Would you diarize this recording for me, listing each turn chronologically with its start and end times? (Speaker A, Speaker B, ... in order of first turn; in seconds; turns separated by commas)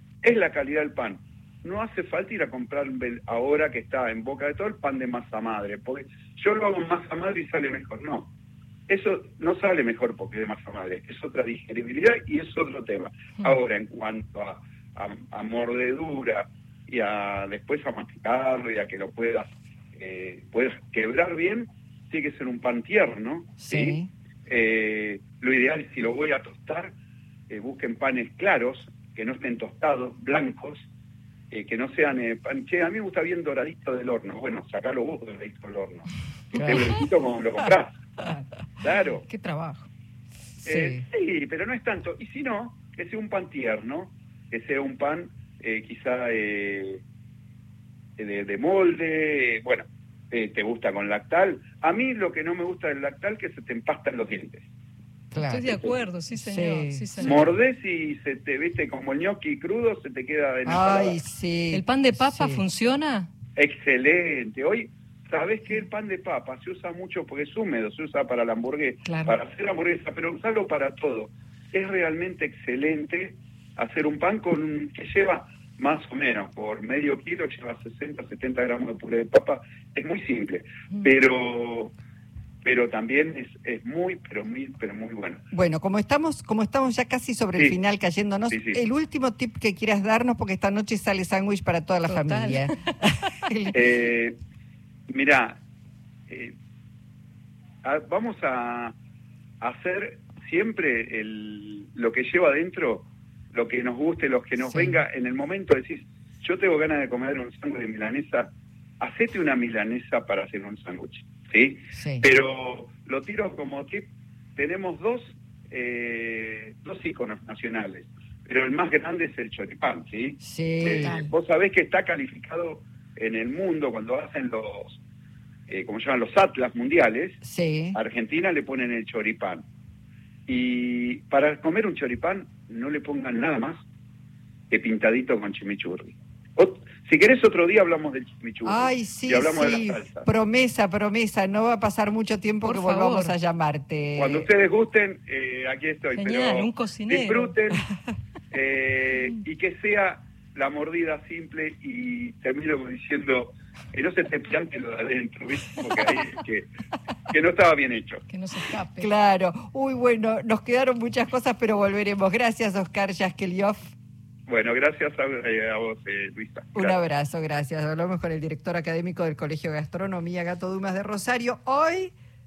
Speaker A: 0.2-8.3, Speaker A: 8.9-26.9, Speaker B: 23.6-24.1, Speaker A: 27.5-30.9, Speaker A: 31.5-38.0, Speaker B: 36.5-37.0, Speaker A: 38.8-39.2, Speaker C: 39.2-39.9, Speaker B: 40.6-41.0, Speaker A: 40.6-47.0, Speaker A: 48.2-54.6, Speaker B: 55.3-55.8, Speaker C: 55.4-57.5, Speaker A: 55.7-56.0, Speaker B: 56.3-57.5, Speaker A: 57.2-61.2, Speaker B: 60.6-62.6, Speaker C: 61.7-63.3, Speaker A: 63.5-81.9, Speaker C: 69.0-69.3, Speaker A: 82.6-85.4, Speaker B: 85.5-92.7, Speaker A: 88.5-88.8, Speaker C: 92.0-93.0, Speaker B: 93.5-93.8, Speaker A: 93.7-94.4, Speaker A: 95.1-95.6, Speaker A: 96.3-96.5, Speaker A: 97.8-99.0, Speaker A: 99.6-125.0, Speaker B: 104.6-105.0, Speaker B: 111.9-112.2, Speaker B: 120.4-121.2, Speaker C: 121.0-121.3, Speaker A: 125.7-127.4, Speaker B: 127.4-128.0, Speaker A: 127.9-129.6, Speaker A: 130.5-133.8, Speaker A: 134.7-140.3, Speaker B: 138.6-144.5, Speaker C: 142.6-143.4, Speaker A: 144.2-147.8, Speaker C: 146.1-147.5, Speaker A: 148.5-156.7, Speaker A: 157.3-158.2, Speaker C: 158.3-159.1, Speaker B: 159.0-163.9, Speaker A: 164.5-167.0, Speaker B: 166.7-172.1